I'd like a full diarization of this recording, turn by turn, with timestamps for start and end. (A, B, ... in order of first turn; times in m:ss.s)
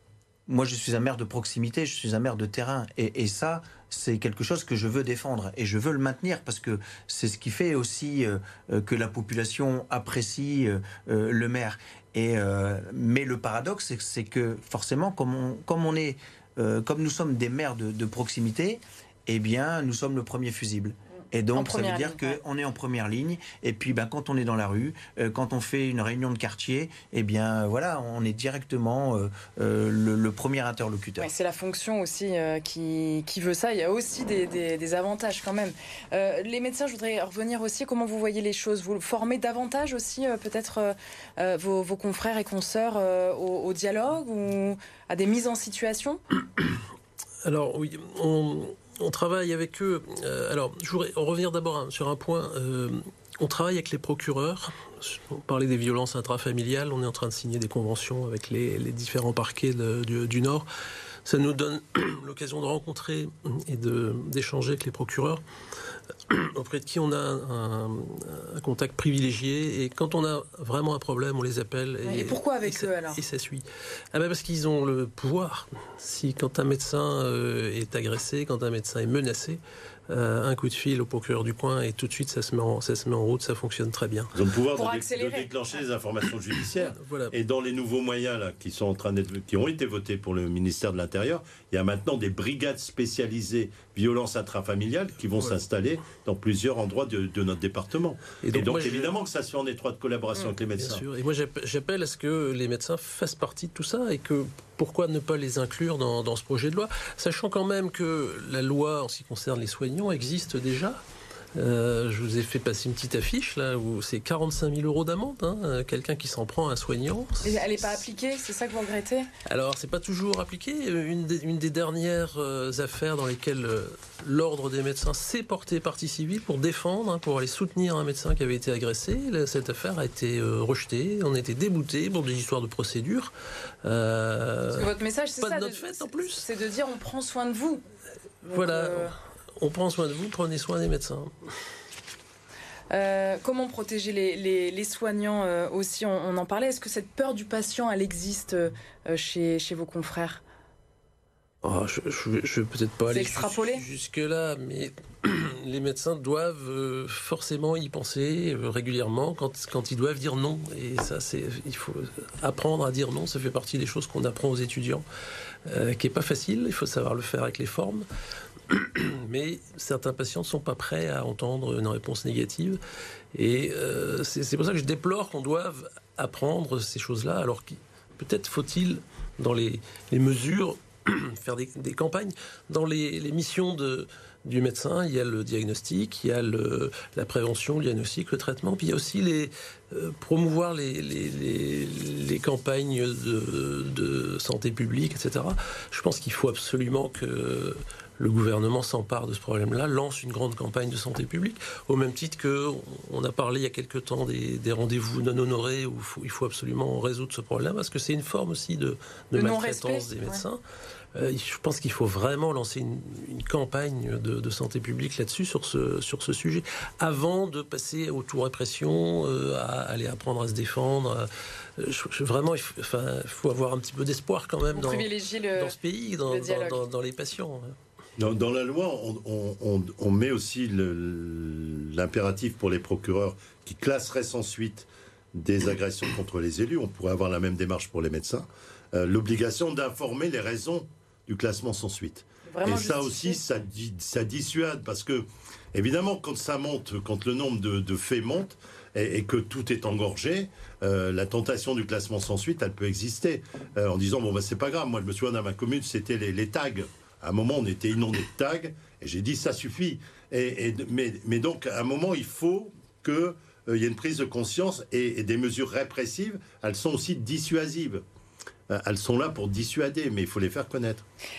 0:00.5-0:31.3 A
0:21.5-0:22.4 B
0:31.2-0:46.2 B
0:47.4-1:00.7 C
1:01.2-1:05.4 C
1:06.3-1:24.4 C
1:12.0-1:13.2 B
1:24.3-1:41.0 D
1:24.7-1:25.5 B
1:26.8-1:27.4 C
1:38.4-1:39.2 C
1:40.8-1:51.0 C
1:51.6-1:58.0 C
1:57.4-1:59.3 B
1:59.4-2:13.3 C
2:13.8-2:14.9 C
2:14.7-2:17.8 B
2:15.4-2:16.5 C
2:18.4-2:21.3 C
2:18.5-2:19.1 B
2:22.9-2:30.4 B
2:31.6-2:45.0 C
2:33.1-2:33.8 B
2:45.7-2:48.1 C
2:48.7-2:52.8 C
2:53.3-3:30.6 C
3:29.4-3:30.4 B
3:31.2-3:47.8 C
3:44.7-3:46.8 B
3:48.2-4:28.0 D
4:02.5-4:03.4 B
4:28.7-4:31.0 D